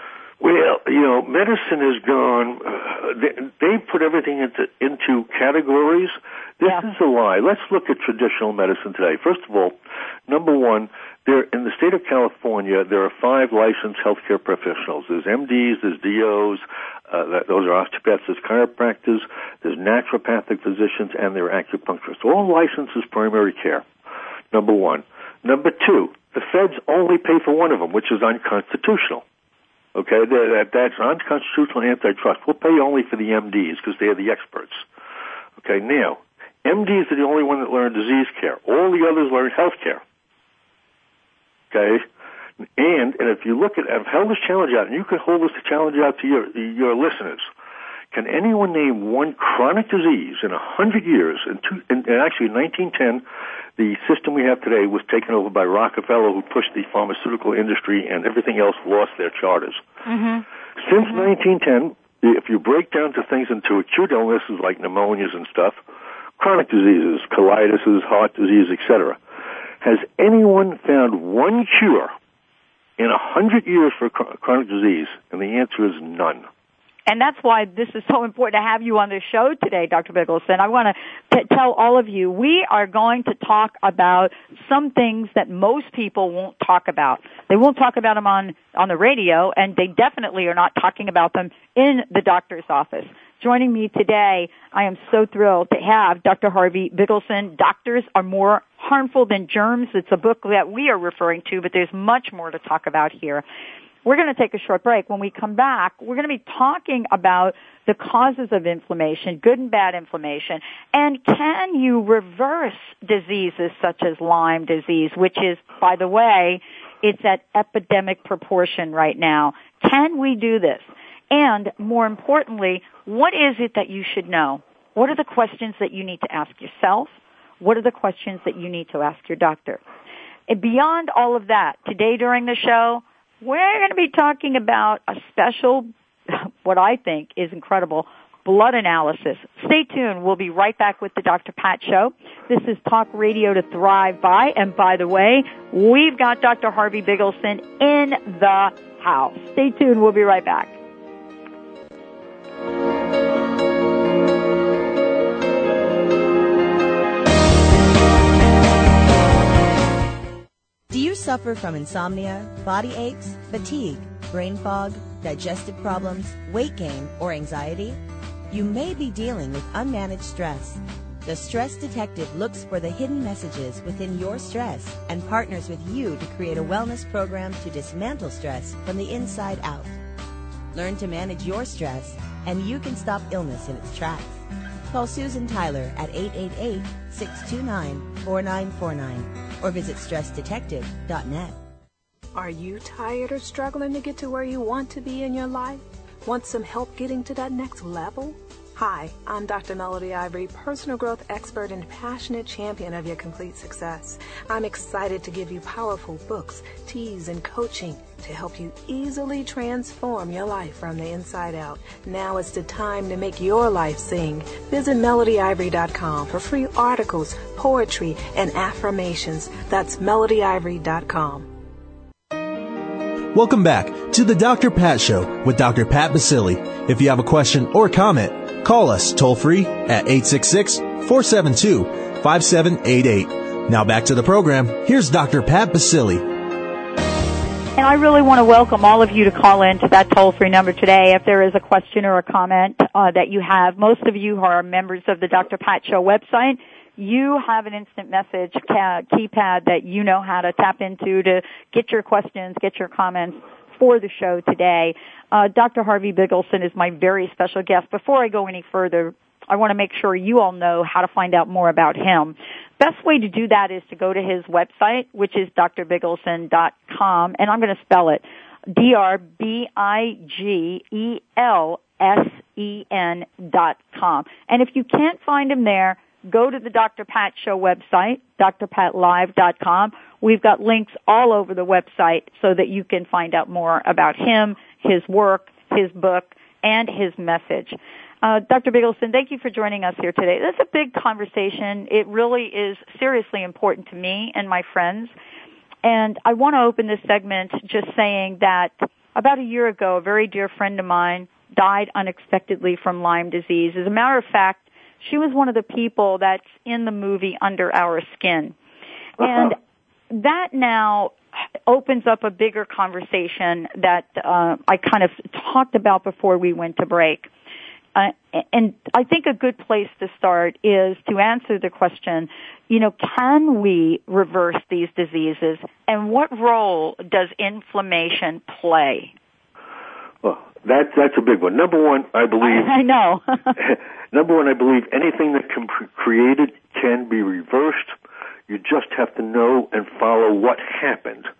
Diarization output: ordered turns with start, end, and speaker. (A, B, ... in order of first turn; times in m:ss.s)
0:00.4-0:09.7 A
0:10.3-0:23.8 A
0:24.5-0:29.2 A
0:29.9-0:34.8 A
0:35.6-0:40.0 A
0:41.7-0:42.0 A
0:42.8-0:47.5 A
0:48.1-0:53.2 A
0:53.8-0:59.8 A
1:00.0-1:00.4 B
1:00.8-1:05.8 A
1:01.0-1:01.3 B
1:06.4-1:09.2 A
1:09.8-1:12.1 A
1:13.0-1:16.4 A
1:17.1-1:43.4 B
1:44.0-2:09.8 B
2:10.5-2:30.7 B
2:40.9-2:48.0 C
2:48.5-2:59.9 C
3:00.7-3:11.6 C
3:12.3-3:41.5 D
3:43.3-3:56.3 E
3:57.8-4:55.1 B
4:55.8-5:08.5 B
5:09.2-5:09.6 B
5:09.2-5:09.5 A
5:10.1-5:11.2 B
5:11.7-5:17.3 B
5:17.9-5:29.1 B
5:30.2-5:32.7 A
5:32.4-5:33.6 B
5:33.6-5:37.9 A
5:38.5-5:41.3 A